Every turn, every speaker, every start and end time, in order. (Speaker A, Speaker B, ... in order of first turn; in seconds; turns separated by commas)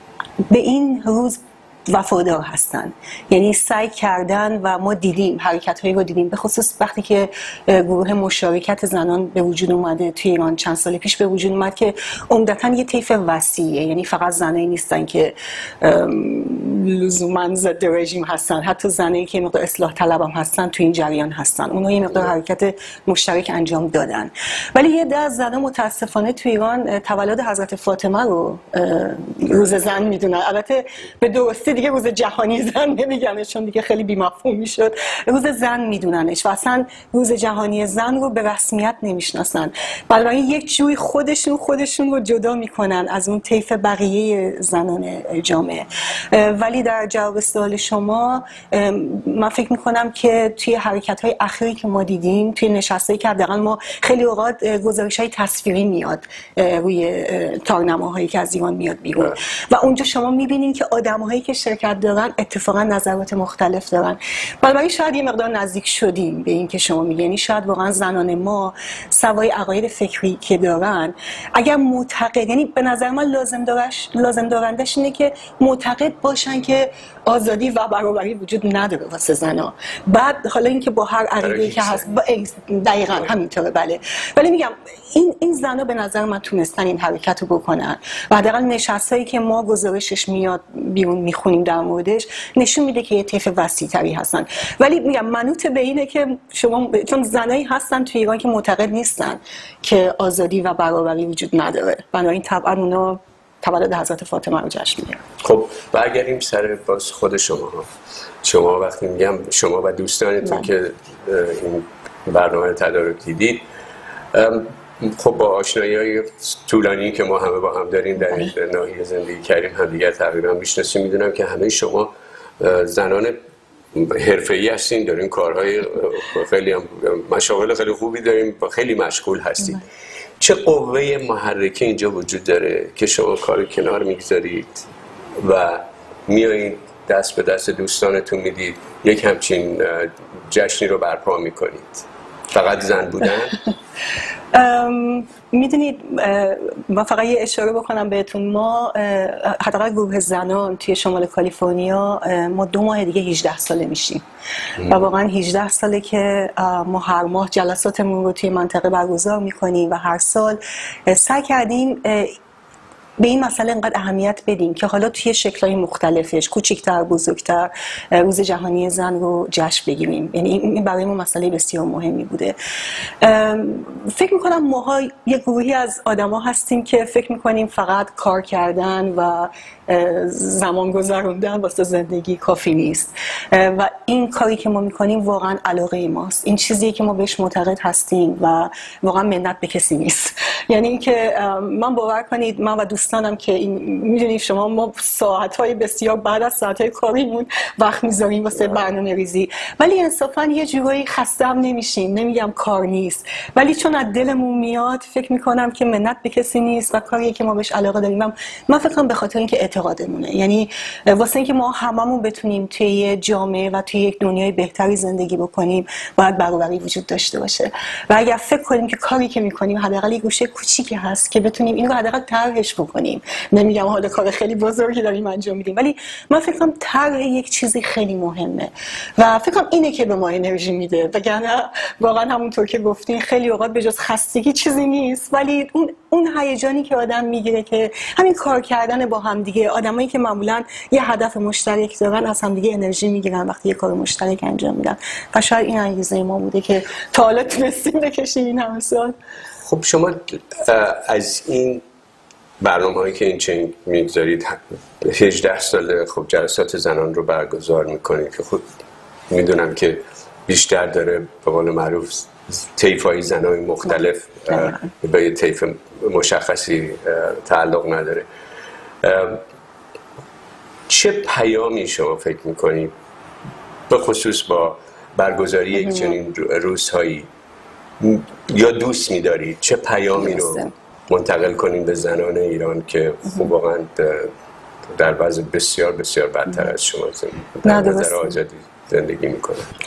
Speaker A: 0.5-105.2, Speaker B: 81.4-82.2, Speaker B: 83.1-83.3, Speaker B: 105.4-107.9, Speaker B: 108.4-113.7, Speaker B: 114.3-123.4, Speaker B: 123.9-129.8, Speaker B: 130.4-134.9, Speaker B: 135.4-143.6, Speaker A: 144.5-154.2, Speaker A: 154.8-162.4, Speaker A: 163.2-172.6, Speaker A: 173.2-249.2, Speaker B: 249.6-251.8, Speaker B: 252.6-258.8, Speaker B: 259.3-268.3, Speaker A: 264.5-264.9, Speaker B: 269.0-269.4, Speaker B: 270.9-272.9, Speaker B: 273.9-277.3, Speaker A: 275.8-276.2, Speaker B: 278.0-284.3, Speaker A: 280.2-280.7, Speaker B: 284.9-289.7, Speaker A: 287.6-288.4